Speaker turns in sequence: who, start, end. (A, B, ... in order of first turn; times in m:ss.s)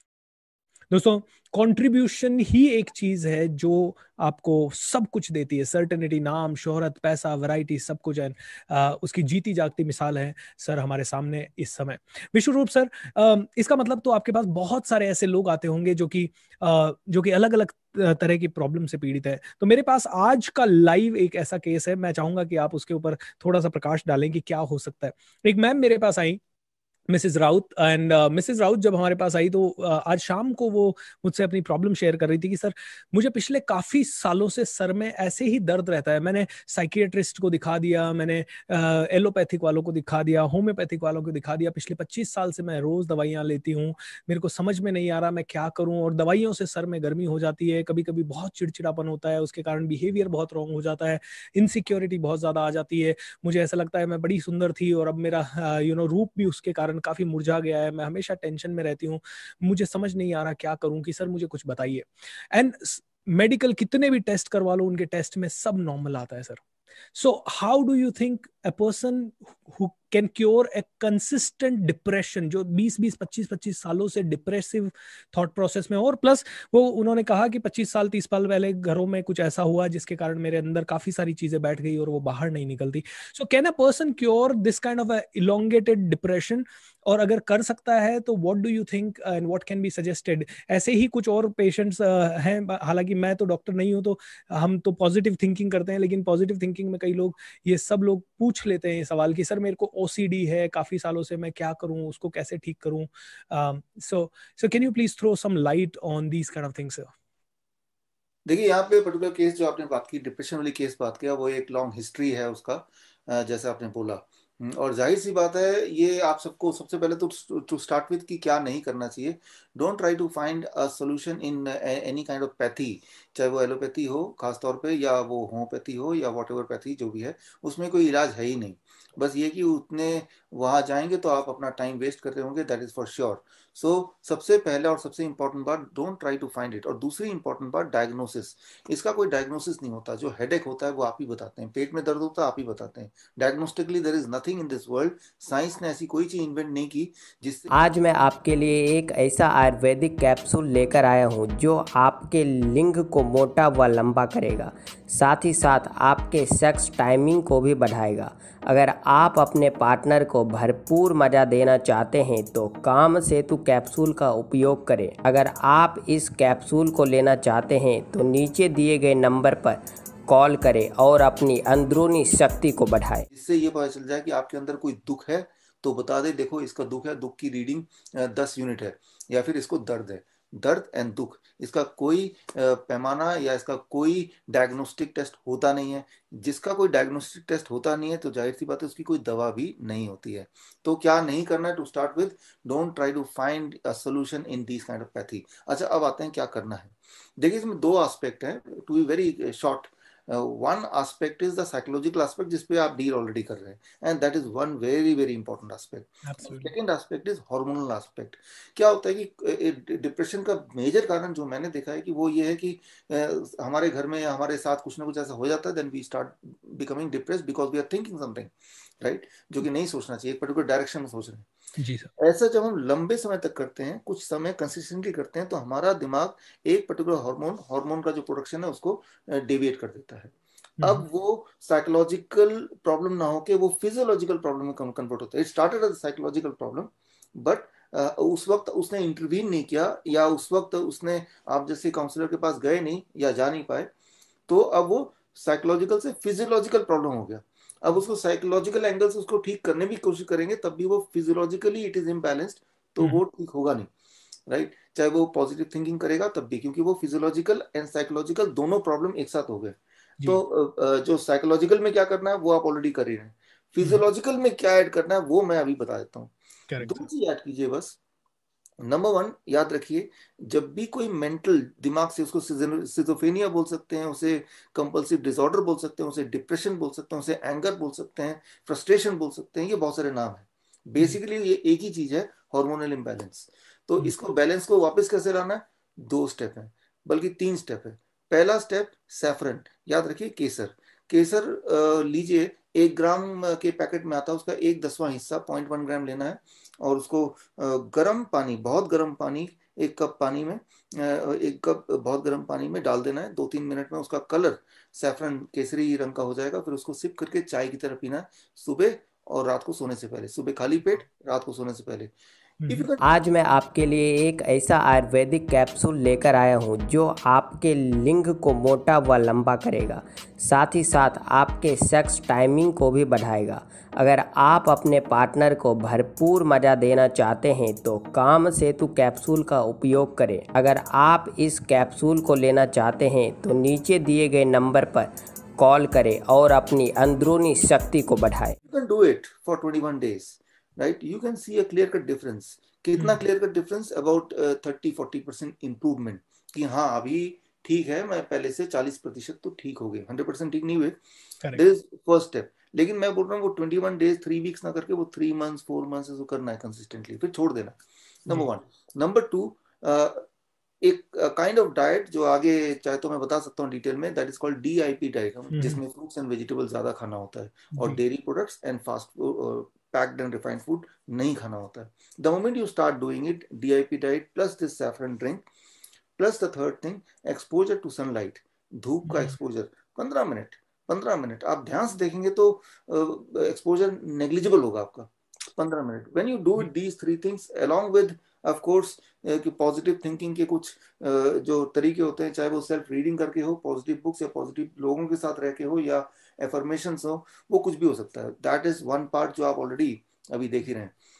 0:00.9-0:26.4 A
0:27.1-1:06.6 A
1:07.1-1:47.1 A
1:48.4-2:27.7 B
2:27.7-2:53.3 C
2:53.3-3:41.5 B
3:26.2-3:26.7 A
3:41.8-3:42.1 A
3:42.2-4:03.9 B
3:50.8-3:51.0 A
4:04.5-4:13.9 B
4:14.5-4:28.0 B
4:26.7-4:27.1 A
4:28.8-5:12.1 B
5:12.6-5:12.9 A
5:12.7-5:13.1 B
5:13.0-5:38.6 C
5:38.7-5:51.0 B
5:43.0-5:43.2 A
5:51.5-6:00.2 B
6:00.8-6:15.4 B
6:05.5-6:05.8 A
6:07.7-6:08.0 A
6:16.2-6:40.9 B